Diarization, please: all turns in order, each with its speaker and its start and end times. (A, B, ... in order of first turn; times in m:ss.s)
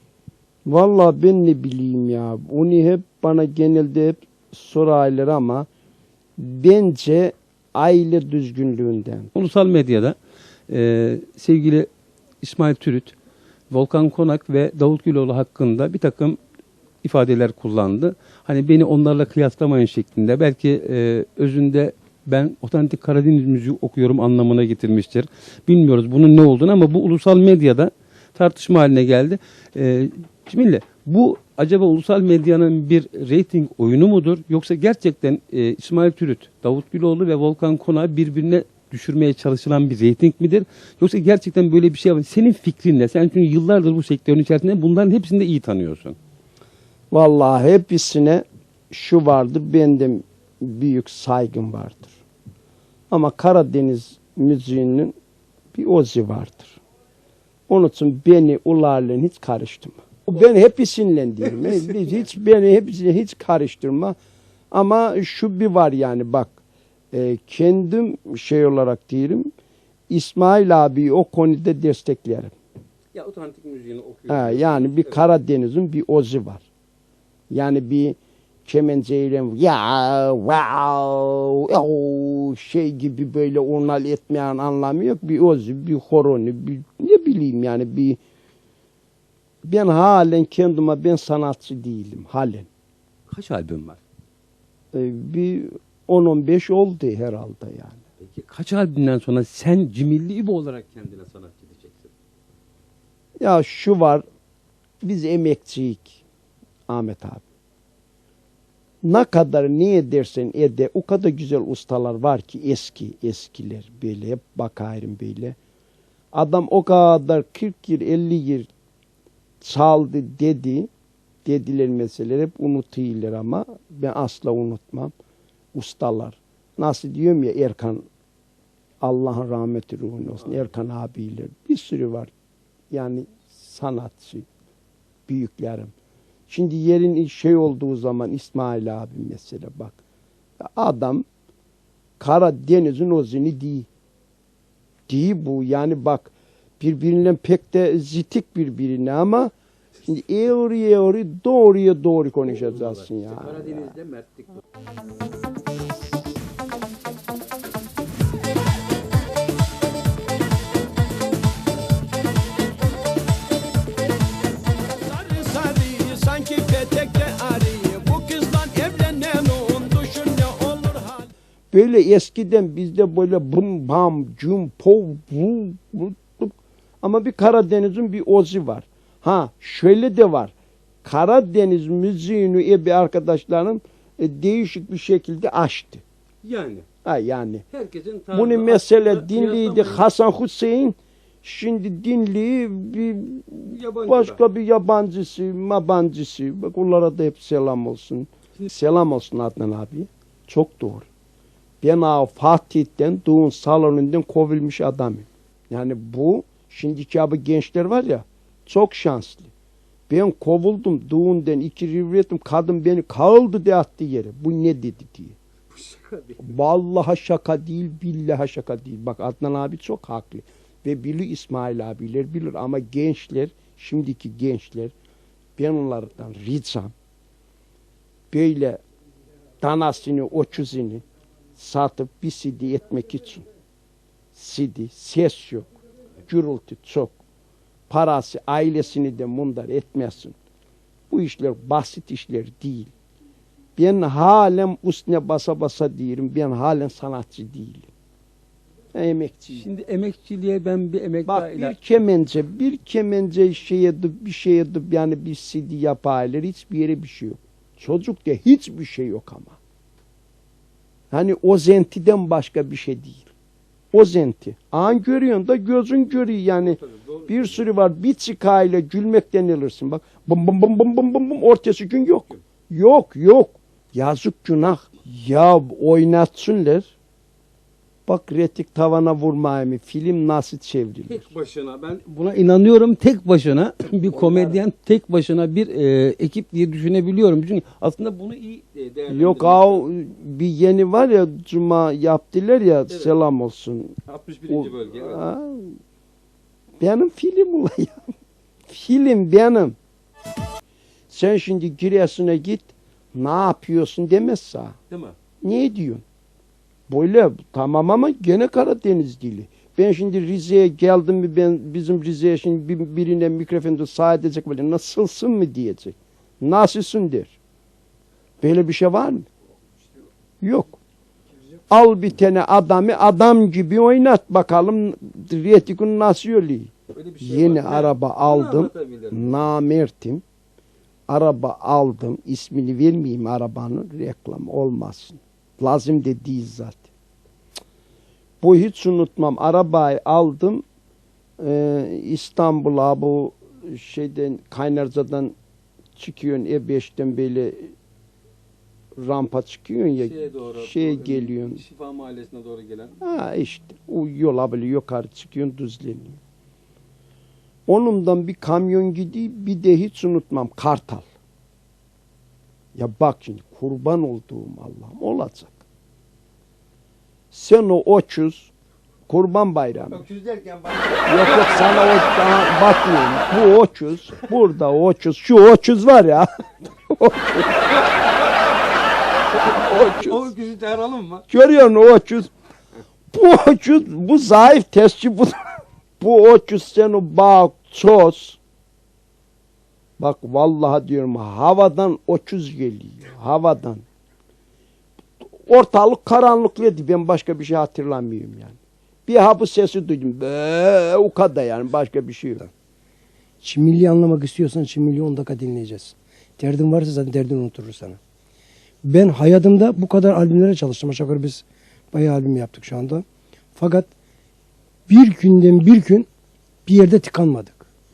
0:00.6-0:05.7 A
0:06.4-0:09.3 A
0:09.3-0:10.2 B
0:10.7-0:11.9 B
0:12.4-0:13.1 B
0:13.7-0:16.4 B
0:17.0-0:46.2 B
0:47.1-0:52.2 A
0:53.1-0:55.1 A
0:55.7-0:56.8 A
0:57.7-1:04.2 A
1:04.7-1:06.5 A
1:07.1-1:09.5 A
1:10.1-1:12.5 A
1:13.1-1:15.2 B
1:14.3-1:16.6 A
1:17.5-1:28.2 A
1:29.6-1:32.7 A
1:33.3-1:34.0 B
1:34.9-1:38.0 A
1:38.2-1:42.1 B
1:43.4-1:44.2 A
1:45.0-1:46.2 A
1:46.9-1:47.4 A
1:49.0-1:55.6 A
1:56.3-1:58.7 A
1:59.6-2:00.9 A
2:01.4-2:05.1 A
2:05.7-2:08.0 A
2:09.0-2:12.3 A
2:12.9-2:14.4 A
2:15.3-2:15.9 A
2:16.5-2:20.0 A
2:20.6-2:21.2 A
2:22.2-2:23.9 A
2:25.1-2:29.5 A
2:30.1-2:33.9 A
2:32.5-2:34.6 B
2:45.0-3:00.5 A
3:01.0-3:06.0 A
3:06.4-3:06.8 B
3:07.0-3:07.6 A
3:07.7-3:10.0 B
3:08.3-3:21.1 A
3:13.7-3:14.4 B
3:21.8-3:29.5 A
3:30.1-3:35.4 A
3:35.7-3:36.5 B
3:36.4-3:44.9 A
3:45.6-3:46.9 A
3:48.3-3:48.8 A
3:49.6-3:51.0 A
3:51.6-3:53.4 A
3:54.3-3:55.7 A
3:56.2-3:57.2 A
3:57.9-4:00.3 A
4:01.1-4:02.9 A
4:03.8-4:07.9 A
4:08.9-4:09.6 A
4:09.5-4:11.8 B
4:11.2-4:19.6 A
4:21.1-4:23.3 A
4:23.9-4:36.9 A
4:26.4-4:27.6 B
4:38.1-4:41.3 A
4:41.1-4:49.8 B
4:44.1-4:44.6 A
4:49.1-4:54.0 A
4:54.0-4:55.2 B
4:54.5-4:55.8 A
4:56.8-4:58.0 A
4:58.7-4:59.8 A
5:01.1-5:04.8 A
5:04.9-5:05.2 B
5:05.4-5:06.0 A
5:06.9-5:17.3 A
5:18.4-5:19.2 A
5:20.4-5:20.8 A
5:21.7-5:30.2 A
5:26.9-5:29.3 B
5:31.1-5:36.8 A
5:38.4-5:40.6 A
5:41.4-5:45.3 A
5:46.0-5:47.7 A
5:49.0-5:51.6 A
5:50.0-5:53.0 B
5:53.0-5:56.2 A
5:57.7-6:01.0 A
6:02.7-6:05.6 A
6:07.3-6:08.5 A
6:09.1-6:10.0 A
6:09.9-6:11.8 B
6:11.1-6:16.3 A
6:16.9-6:17.6 A
6:19.4-6:20.2 A
6:19.5-6:21.2 B
6:21.3-6:22.3 A
6:23.1-6:28.4 A
6:30.0-6:33.8 A
6:35.4-6:42.5 A
6:43.4-6:48.0 C
6:48.8-6:53.0 C
6:53.6-6:53.9 C
6:54.9-6:56.1 C
6:56.6-6:57.6 C